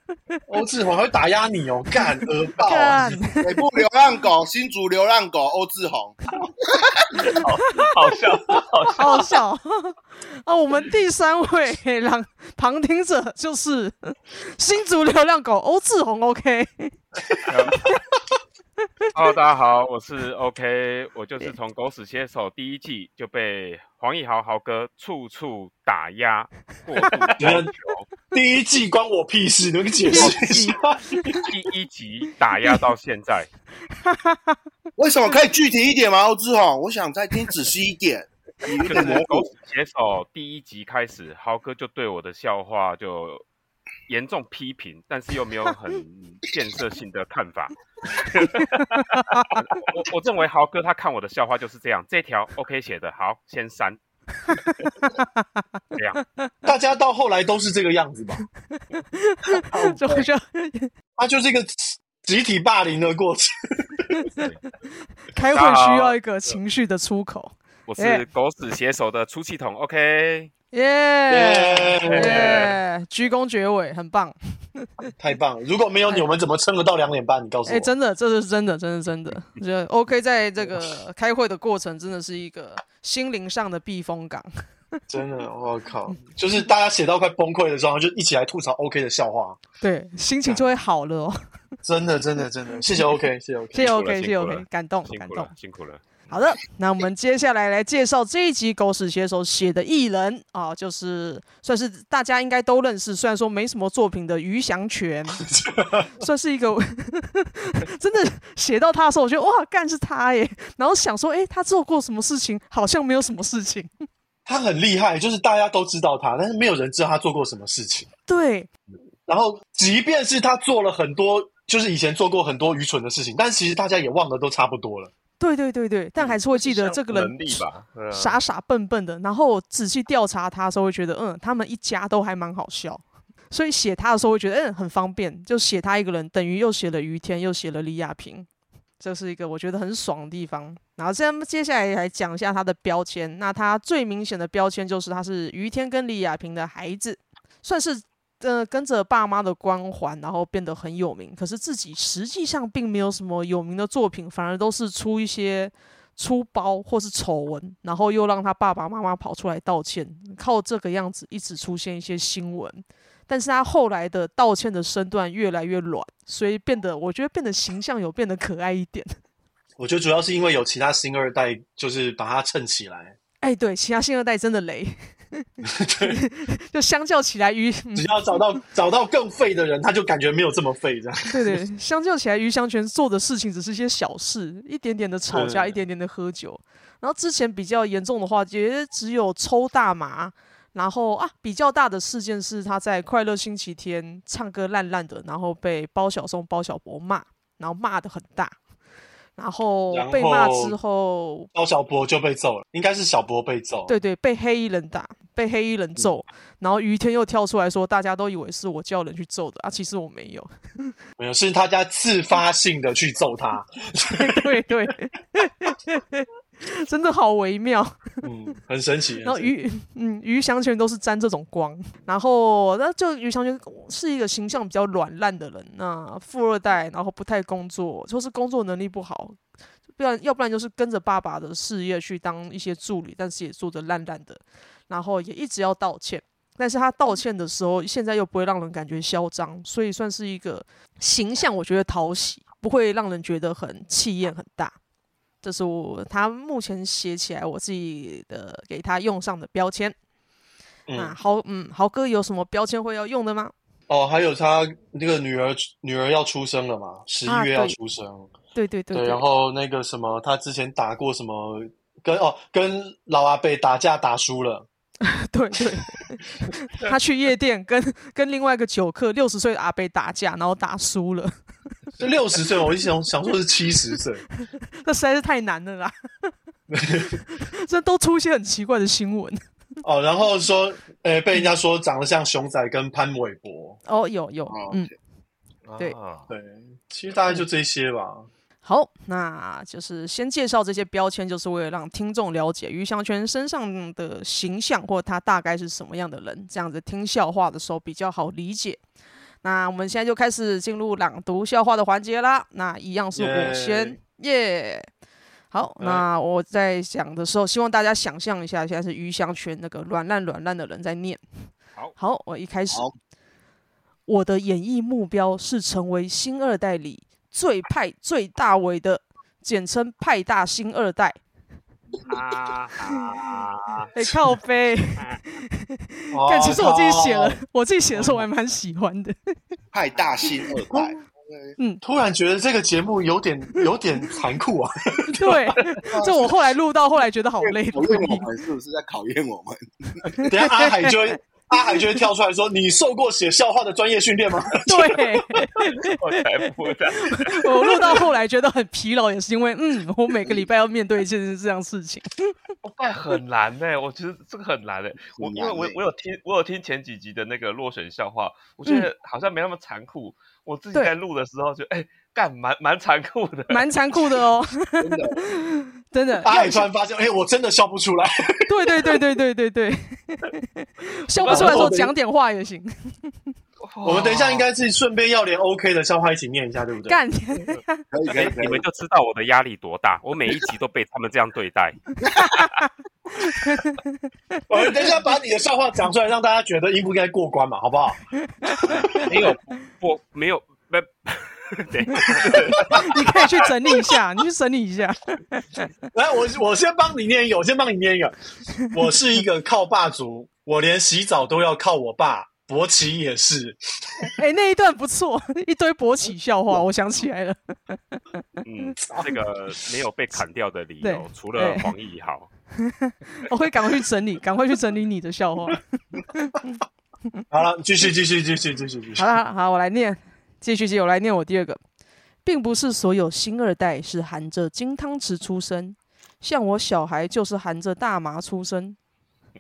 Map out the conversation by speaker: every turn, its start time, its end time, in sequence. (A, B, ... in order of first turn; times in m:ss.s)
0:00.5-0:03.2 A
0:02.6-0:03.5 B
0:03.4-0:06.2 C
0:06.8-0:07.0 C
0:07.2-0:09.4 D
0:07.4-0:07.9 B
0:09.0-0:16.9 B
0:17.5-0:17.9 E
0:19.1-0:28.1 E
0:27.4-0:27.7 A
0:28.3-0:31.4 A
0:30.1-0:31.4 B
0:31.4-0:33.5 E
0:34.0-0:34.6 B
0:35.0-0:39.5 C
0:38.8-0:43.4 E
0:44.1-0:48.7 E
0:48.6-0:49.5 B
0:49.5-0:54.0 E
0:54.5-0:55.6 B
0:56.0-0:56.2 E
0:56.7-0:58.4 A
0:59.0-1:00.9 B
0:59.7-1:00.2 A
1:01.2-1:04.2 A
1:05.3-1:08.2 B
1:05.4-1:06.5 E
1:07.9-1:10.5 E
1:10.7-1:14.9 B
1:11.3-1:12.7 A
1:12.0-1:12.7 E
1:15.2-1:17.9 A
1:17.7-1:24.5 B
1:25.1-1:29.6 A
1:29.8-1:31.4 B
1:31.8-1:33.9 A
1:33.7-1:35.5 B
1:33.8-1:36.0 E
1:36.3-1:45.5 B
1:45.4-1:46.1 A
1:46.2-1:53.9 B
1:54.5-1:58.1 A
1:58.3-1:58.7 B
1:59.3-2:05.1 A
2:05.4-2:18.5 B
2:06.2-2:08.4 D
2:19.0-2:49.1 B
2:49.8-2:53.2 A
2:53.4-2:55.5 B
2:55.6-2:56.2 A
2:56.0-2:58.4 B
2:58.0-3:01.6 A
3:01.3-3:18.6 B
3:05.3-3:05.8 A
3:19.4-3:21.5 B
3:19.9-3:20.8 A
3:21.5-3:23.9 A
3:23.9-3:30.9 B
3:31.2-3:34.5 A
3:34.1-3:38.2 B
3:38.2-3:39.5 A
3:39.2-3:49.4 B
3:49.9-4:04.8 B
4:05.4-4:10.0 B
4:10.9-4:11.2 A
4:11.0-4:13.5 B
4:13.9-4:18.3 A
4:17.3-4:17.8 B
4:18.6-4:19.2 B
4:18.9-4:24.7 A
4:25.0-4:31.3 B
4:32.0-4:34.2 A
4:34.8-4:35.9 B
4:36.7-4:37.2 A
4:37.3-4:39.4 B
4:39.8-4:43.8 A
4:43.9-4:44.9 B
4:44.5-4:44.9 C
4:45.7-4:48.3 A
4:45.8-4:46.3 D
4:48.6-4:58.8 B
4:59.4-5:04.9 B
5:03.2-5:04.0 A
5:05.5-5:11.2 B
5:05.8-5:06.0 A
5:12.0-5:12.8 B
5:14.1-5:21.2 B
5:22.1-5:23.9 E
5:23.9-5:29.2 B
5:26.1-5:27.4 A
5:29.7-5:31.6 C
5:31.8-5:35.6 A
5:35.1-5:38.3 B
5:35.9-5:36.3 C
5:37.4-5:40.2 C
5:40.1-5:41.2 B
5:40.3-5:45.0 A
5:44.6-5:46.0 B
5:45.6-5:48.0 D
5:47.1-5:52.3 B
5:52.6-6:03.7 D
5:55.2-5:55.8 C
6:03.5-6:06.6 B
6:04.8-6:05.3 C
6:06.2-6:09.0 A
6:08.5-6:13.3 B
6:11.2-6:11.7 D
6:11.2-6:12.0 A
6:13.6-6:14.5 D
6:13.8-6:17.0 A
6:16.9-6:17.9 B
6:17.9-6:18.7 C
6:18.1-6:22.4 E
6:22.0-6:22.4 C
6:22.4-6:22.6 B
6:23.2-6:24.4 B
6:24.5-6:29.1 A
6:28.7-6:33.0 E
6:32.1-6:32.8 A
6:32.2-6:32.8 D
6:32.7-6:35.7 B
6:35.9-6:44.1 A
6:44.0-6:48.0 B
6:48.5-6:48.8 D
6:48.9-6:49.2 A
6:49.0-6:52.3 E
6:50.8-6:51.7 B
6:52.6-6:56.6 B
6:57.3-6:59.2 A
6:59.0-7:01.6 B
7:02.2-7:08.8 B